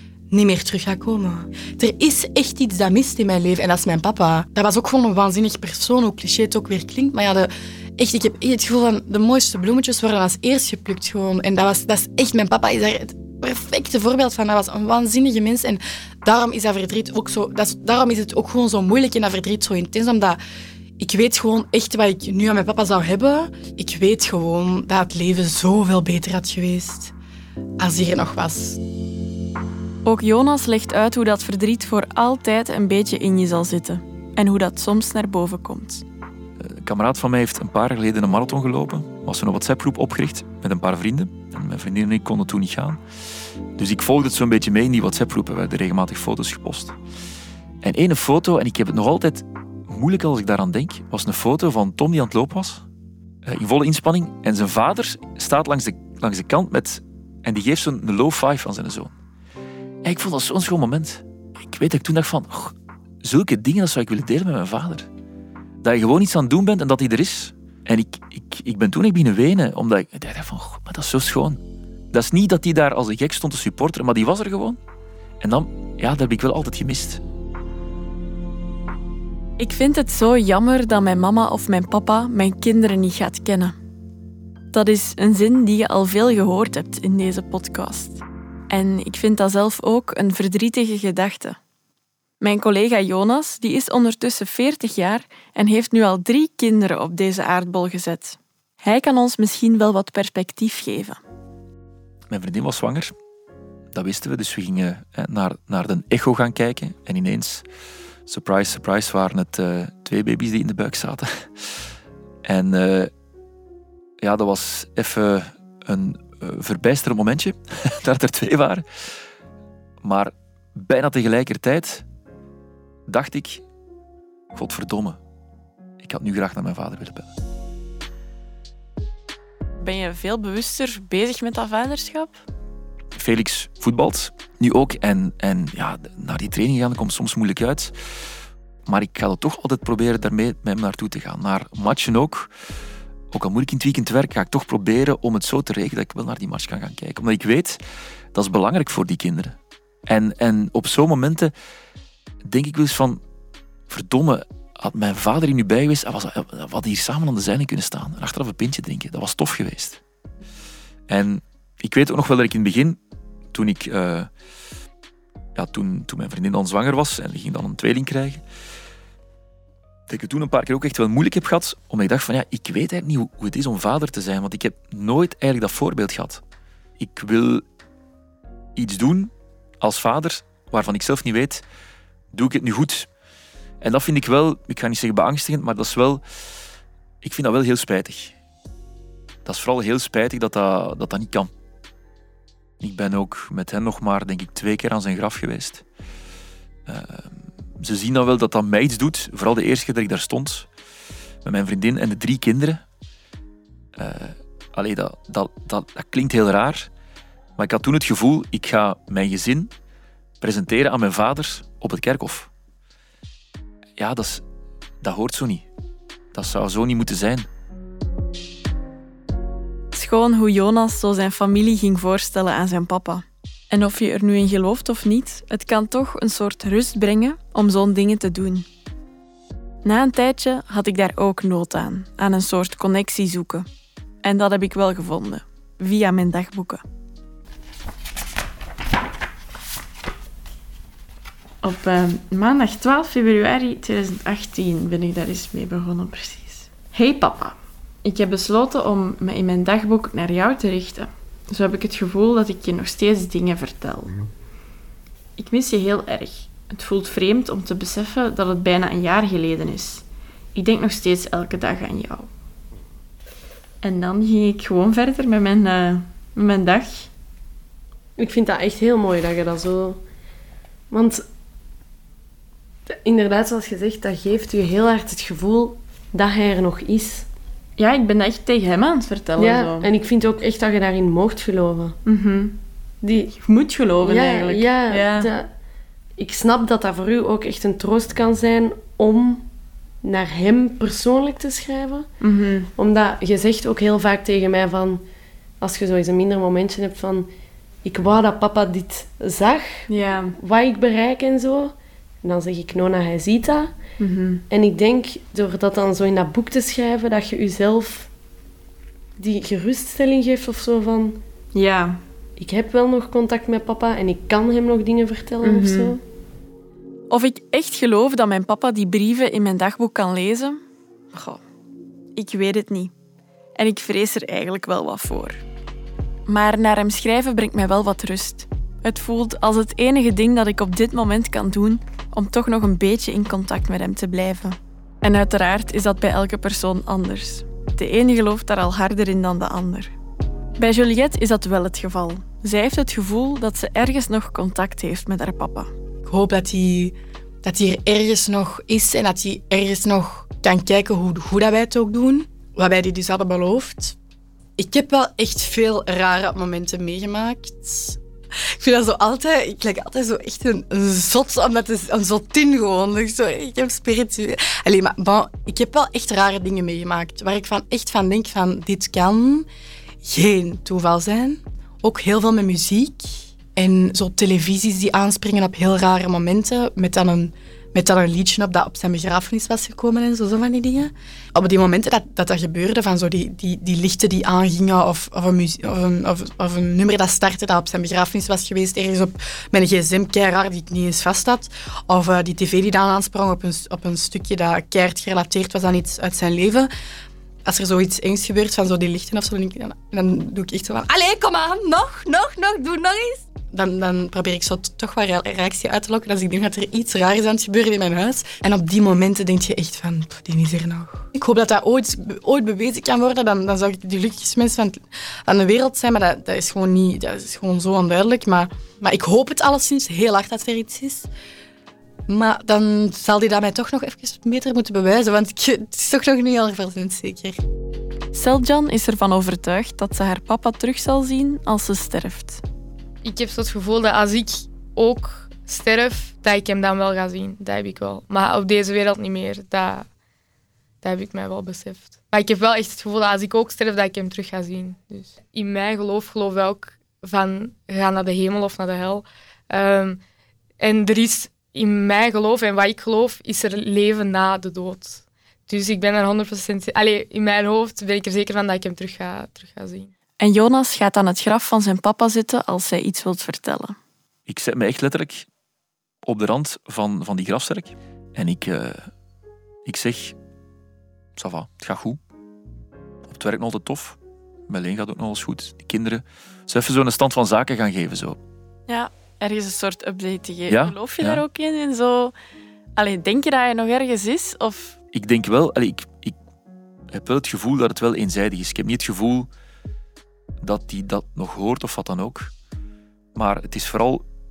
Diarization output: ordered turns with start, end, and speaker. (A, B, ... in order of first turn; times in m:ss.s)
0:00.3-0:20.4 A
0:21.0-0:27.1 A
0:27.8-0:28.8 A
0:30.0-0:36.0 B
0:36.6-0:43.0 C
0:43.8-0:47.0 C
0:47.8-0:52.8 C
0:53.4-0:59.1 C
1:00.0-1:05.0 C
1:05.8-1:11.6 C
1:12.1-1:14.8 C
1:15.4-1:17.2 C
1:19.6-1:23.7 B
1:24.7-1:31.6 B
1:32.4-1:41.2 B
1:42.3-1:43.1 C
1:43.9-1:47.6 C
1:48.2-1:51.9 C
1:52.4-1:53.1 C
1:54.2-1:59.2 C
2:00.0-2:02.0 C
2:03.1-2:03.6 C
2:04.5-2:05.2 C
2:06.0-2:07.3 C
2:09.8-2:12.4 B
2:13.1-2:17.9 C
2:18.8-2:22.5 C
2:23.3-2:27.8 C
2:28.3-2:29.6 C
2:30.1-2:31.5 C
2:32.4-2:33.2 C
2:33.9-2:40.0 C
2:41.1-2:43.0 C
2:43.5-2:44.3 C
2:45.5-2:48.4 C
2:50.1-2:56.4 C
2:57.0-2:57.6 C
2:58.8-3:01.6 C
3:02.3-3:03.1 C
3:03.8-3:06.2 C
3:07.2-3:08.3 C
3:09.4-3:11.5 C
3:12.8-3:15.8 C
3:16.8-3:20.7 C
3:21.4-3:22.8 C
3:24.0-3:26.9 C
3:27.6-3:29.7 C
3:30.4-3:32.5 C
3:34.0-3:34.4 C
3:35.0-3:35.7 C
3:36.3-3:37.5 C
3:39.9-3:48.7 B
3:49.8-3:53.7 B
3:54.2-3:56.8 B
4:01.6-4:14.2 B
4:15.4-4:20.0 B
4:20.5-4:22.3 B
4:23.8-4:27.1 B
4:28.2-4:30.0 D
4:30.9-4:31.2 D
4:32.9-4:37.3 D
4:37.8-4:39.9 B
4:39.4-4:41.9 D
4:42.0-4:42.6 B
4:43.0-4:43.3 D
4:43.4-4:45.3 B
4:44.0-4:45.5 D
4:46.2-4:49.5 D
4:50.0-4:52.1 D
4:52.2-4:52.7 B
4:52.8-4:55.0 D
4:55.6-4:57.3 D
4:57.8-4:59.9 D
4:59.9-5:00.3 B
5:00.4-5:03.7 D
5:04.0-5:04.4 B
5:04.5-5:08.1 D
5:09.2-5:11.2 D
5:11.5-5:12.0 B
5:12.4-5:16.0 D
5:15.4-5:16.0 B
5:17.1-5:20.6 B
5:21.1-5:21.4 B
5:22.2-5:22.9 B
5:23.6-5:25.4 B
5:26.3-5:39.9 B
5:40.6-5:45.7 B
5:46.0-5:54.0 A
5:54.6-5:58.0 A
5:58.6-6:09.5 A
6:10.0-6:36.7 A
6:37.4-7:01.1 A
7:02.1-7:07.4 A
7:08.1-7:12.4 B
7:13.0-7:19.9 E
7:20.8-7:30.0 E
7:30.6-7:39.9 E
7:40.2-7:43.8 B
7:44.3-7:45.3 C
7:46.0-7:48.9 C
7:49.6-7:50.2 C
7:51.2-7:52.0 C
7:53.0-7:58.2 C
7:58.7-8:02.1 B
8:00.5-8:01.2 C
8:02.8-8:04.8 B
8:04.9-8:06.2 C
8:06.9-8:09.3 C
8:10.4-8:12.3 C
8:13.1-8:14.0 C